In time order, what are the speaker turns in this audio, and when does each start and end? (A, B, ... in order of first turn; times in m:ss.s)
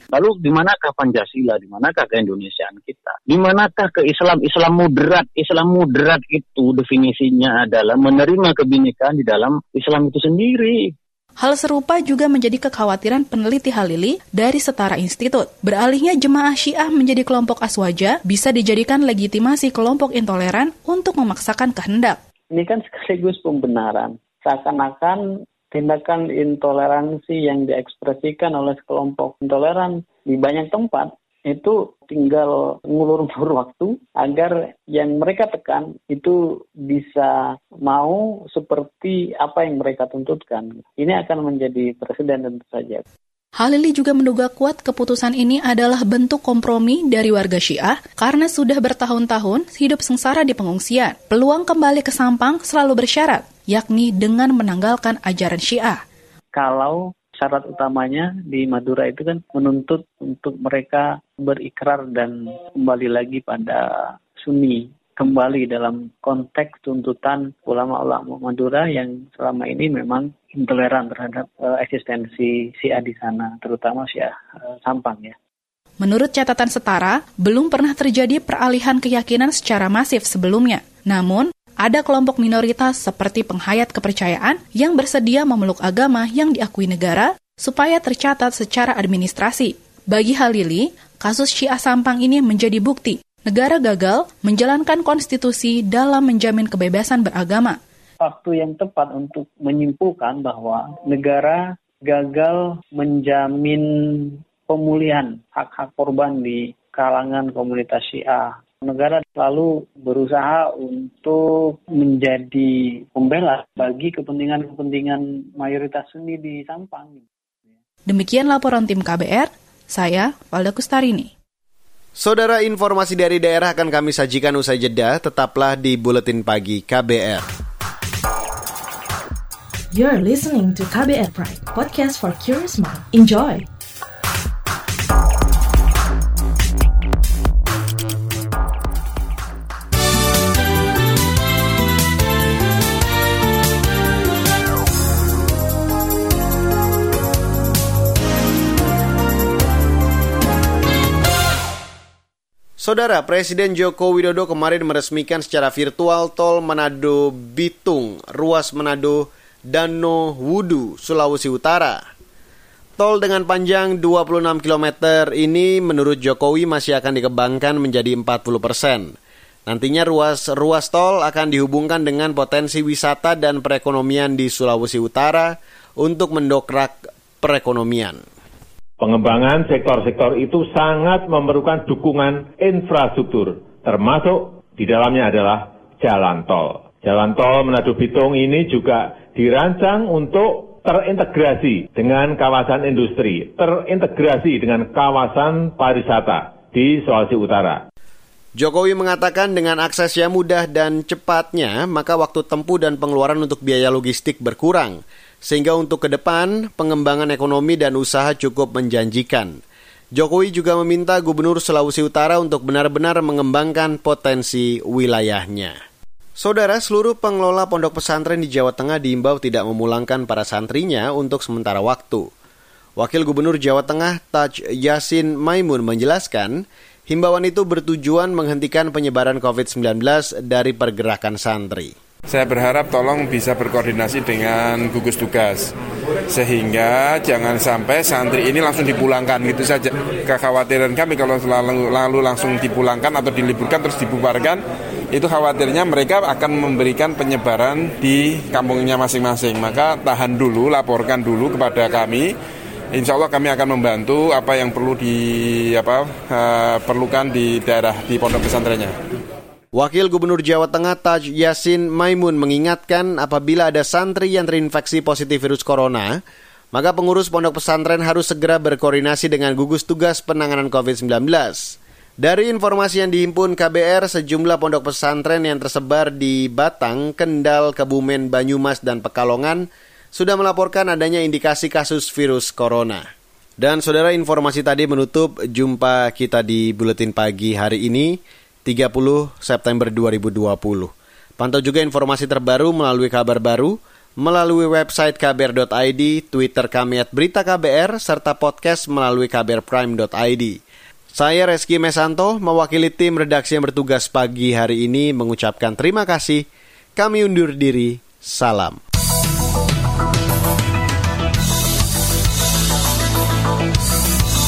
0:00.1-0:10.9 A
0:11.4-0:22.2 B
0:22.5-0:43.0 C
0:43.6-0:56.0 B
0:56.6-1:15.4 C
1:16.0-1:37.8 B
1:38.2-1:57.3 C
1:58.1-2:01.3 B
2:02.2-2:07.4 D
2:09.9-2:13.6 E
2:32.8-2:42.1 D
2:43.0-2:58.2 D
2:59.0-3:17.8 F
3:18.6-3:29.6 D
3:30.1-3:35.8 D
3:36.4-3:42.3 D
3:43.0-3:51.9 D
3:52.3-3:55.7 G
3:56.3-4:12.3 G
4:12.9-4:19.0 G
4:19.7-4:26.2 D
4:26.7-4:43.1 D
4:43.6-5:00.6 D
5:01.1-5:08.8 D